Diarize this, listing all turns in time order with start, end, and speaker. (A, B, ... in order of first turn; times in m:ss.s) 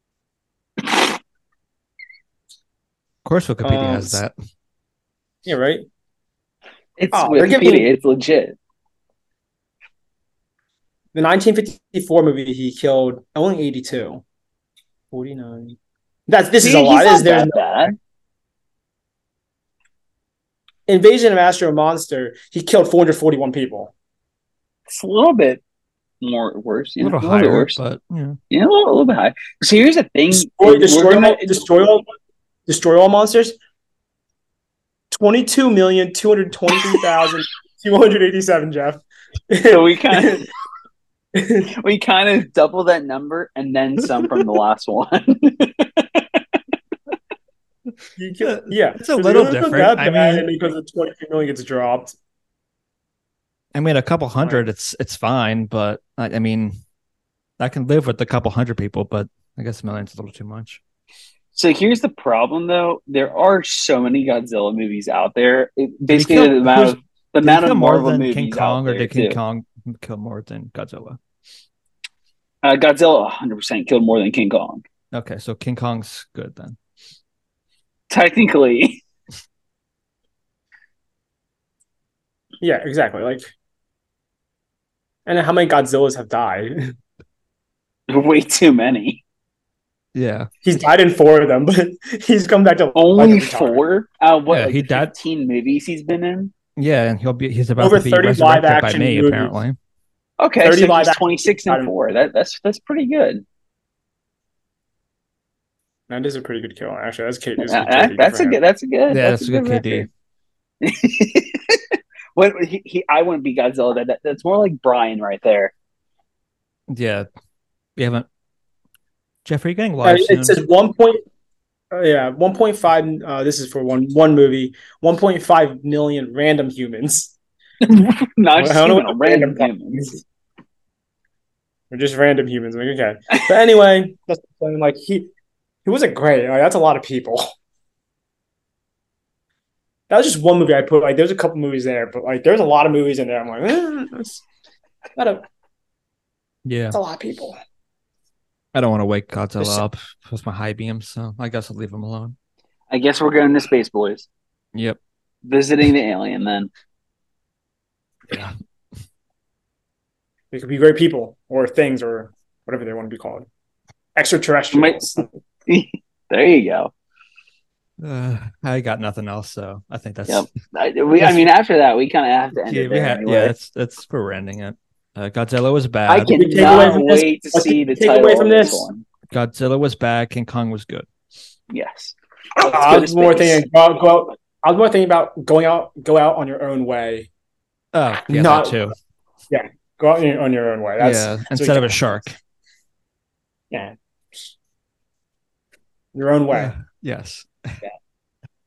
0:03.2-0:04.3 A
0:03.6-0:04.2 B
0:05.4-0:05.8 B
0:07.0-0:08.6 C
0:07.1-0:07.9 B
0:11.1-0:14.2 B
0:15.1-0:15.8 B
0:16.3-0:17.9 B
0:16.6-0:17.9 C
0:20.9-0:23.9 B
0:24.9-0:25.6 C
0:26.2-0:27.8 C
0:27.0-0:28.4 A
0:28.5-0:31.6 C
0:30.3-0:32.0 B
0:32.7-0:33.6 B
0:35.1-0:40.4 B
0:39.7-0:40.5 C
0:41.3-0:41.7 B
0:41.7-0:46.6 C
0:48.2-0:52.1 B
0:48.4-0:50.5 A
0:53.7-0:56.8 A
0:57.6-1:00.8 A
1:01.5-1:09.4 C
1:06.1-1:11.2 A
1:12.6-1:14.8 C
1:15.1-1:16.8 A
1:18.1-1:19.0 C
1:22.6-1:23.5 B
1:25.2-1:26.9 B
1:28.1-1:29.2 C
1:30.1-1:30.5 A
1:30.6-1:33.8 B
1:33.0-1:36.5 C
1:34.5-1:35.1 A
1:36.8-1:39.8 A
1:37.8-1:39.5 B
1:40.4-1:43.4 C
1:40.6-1:41.9 B
1:46.1-1:48.6 B
1:47.6-1:50.1 C
1:49.1-1:50.1 A
1:50.8-1:55.7 C
1:56.9-1:57.3 A
1:58.0-1:58.2 A
1:59.4-2:00.6 A
2:00.0-2:01.2 B
2:01.9-2:07.3 B
2:07.8-2:10.2 C
2:08.6-2:10.2 B
2:11.9-2:15.3 B
2:15.8-2:17.5 B
2:20.1-2:24.4 B
2:25.2-2:25.4 B
2:26.6-2:27.0 A
2:26.9-2:27.6 B
2:28.7-2:32.3 A
2:32.9-2:34.3 C
2:35.4-2:36.7 C
2:40.5-2:43.4 B
2:44.2-2:45.3 B
2:44.7-2:46.9 C
2:48.0-2:50.5 A
2:50.3-2:53.5 C
2:51.2-2:51.5 A
2:52.6-2:56.7 A
2:56.1-2:59.0 C
2:56.3-2:58.9 B
2:59.3-3:01.1 A
3:01.7-3:03.6 C
3:02.6-3:07.3 B
3:07.9-3:08.9 A
3:08.3-3:08.8 B
3:09.5-3:12.1 B
3:11.0-3:12.3 A
3:13.7-3:14.5 B
3:16.1-3:16.7 B
3:16.5-3:17.8 A